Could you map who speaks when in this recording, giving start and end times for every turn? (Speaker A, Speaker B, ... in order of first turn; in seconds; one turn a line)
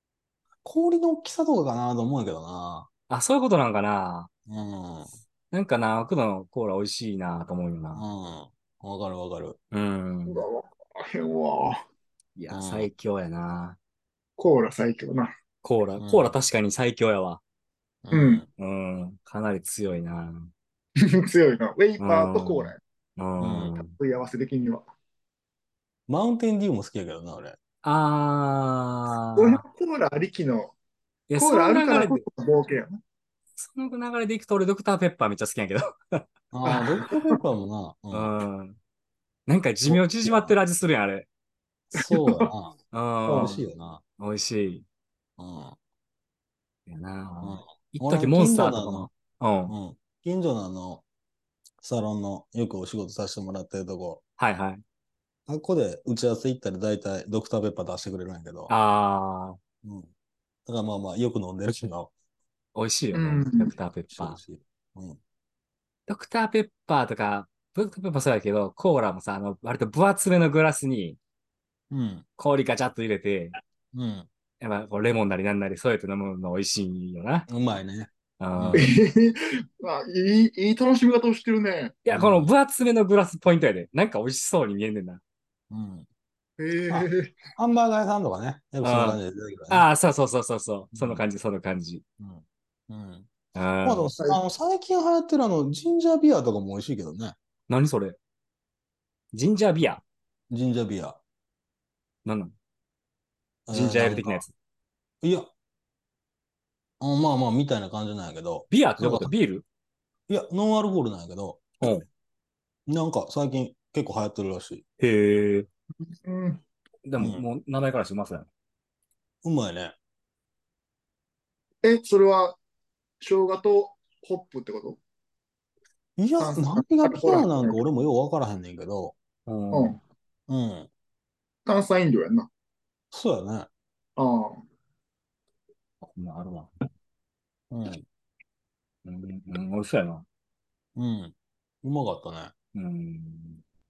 Speaker A: 0.6-2.9
Speaker B: 3.1-4.3
Speaker A: 4.5-5.1
Speaker B: 5.5-8.1
Speaker A: 8.0-9.6
Speaker B: 9.7-10.4
Speaker C: 10.3-11.8
Speaker B: 12.4-13.8
Speaker A: 12.5-12.9
Speaker C: 14.4-15.3
Speaker B: 15.6-17.4
Speaker A: 16.0-16.3
Speaker A: 18.0-18.5
Speaker C: 18.1-18.4
Speaker B: 18.6-20.5
Speaker C: 21.0-22.8
Speaker B: 22.0-23.9
Speaker A: 23.4-23.8
Speaker C: 23.8-24.8
Speaker A: 26.1-27.6
Speaker B: 27.8-29.6
Speaker C: 29.4-30.7
Speaker B: 31.3-32.2
Speaker C: 31.4-33.0
Speaker B: 33.6-36.2
Speaker A: 36.5-38.3
Speaker C: 36.6-37.4
Speaker B: 38.1-38.8
Speaker B: 39.5-41.3
Speaker A: 39.9-40.5
Speaker A: 41.9-42.8
Speaker C: 42.0-42.5
Speaker B: 42.9-43.6
Speaker C: 43.3-43.6
Speaker A: 43.3-44.0
Speaker B: 44.2-44.9
Speaker A: 45.4-45.8
Speaker B: 46.9-49.7
Speaker A: 47.4-49.1
Speaker A: 49.7-51.0
Speaker A: 51.8-54.2
Speaker B: 54.4-54.8
Speaker A: 55.5-58.7
Speaker B: 58.7-59.6
Speaker A: 59.8-60.1
Speaker A: 60.7-62.1
Speaker B: 62.8-64.4
Speaker C: 63.1-63.7
Speaker A: 64.1-65.2
Speaker B: 66.1-71.2
Speaker A: 71.9-72.2
Speaker B: 72.4-73.6
Speaker A: 73.9-74.3
Speaker B: 74.6-77.5
Speaker A: 77.5-78.9
Speaker B: 78.4-78.9
Speaker C: 78.8-82.0
Speaker B: 82.0-85.2
Speaker A: 82.1-82.5
Speaker A: 85.7-86.0
Speaker C: 86.6-87.3
Speaker A: 86.9-89.9
Speaker B: 88.8-89.2
Speaker B: 89.7-92.0
Speaker A: 90.9-91.2
Speaker A: 92.2-93.3
Speaker B: 93.5-94.1
Speaker A: 93.8-97.4
Speaker B: 97.7-98.2
Speaker B: 99.3-100.0
Speaker A: 100.5-101.2
Speaker B: 102.2-102.5
Speaker A: 103.7-104.4
Speaker B: 103.7-104.5
Speaker A: 105.2-105.5
Speaker A: 107.0-109.3
Speaker B: 108.7-109.6
Speaker A: 110.3-112.0
Speaker B: 111.8-112.1
Speaker A: 112.9-114.8
Speaker B: 115.0-115.7
Speaker C: 116.2-116.6
Speaker B: 117.1-118.5
Speaker A: 117.2-117.4
Speaker A: 119.4-120.0
Speaker C: 121.8-122.6
Speaker C: 123.2-125.0
Speaker A: 126.2-129.2
Speaker C: 126.4-127.8
Speaker B: 129.5-130.0
Speaker C: 129.7-130.0
Speaker A: 130.5-130.9
Speaker C: 131.7-132.5
Speaker A: 133.1-133.7
Speaker C: 134.2-134.6
Speaker B: 136.0-136.7
Speaker A: 137.7-138.0
Speaker B: 139.1-140.2
Speaker A: 141.0-142.5
Speaker B: 142.7-143.6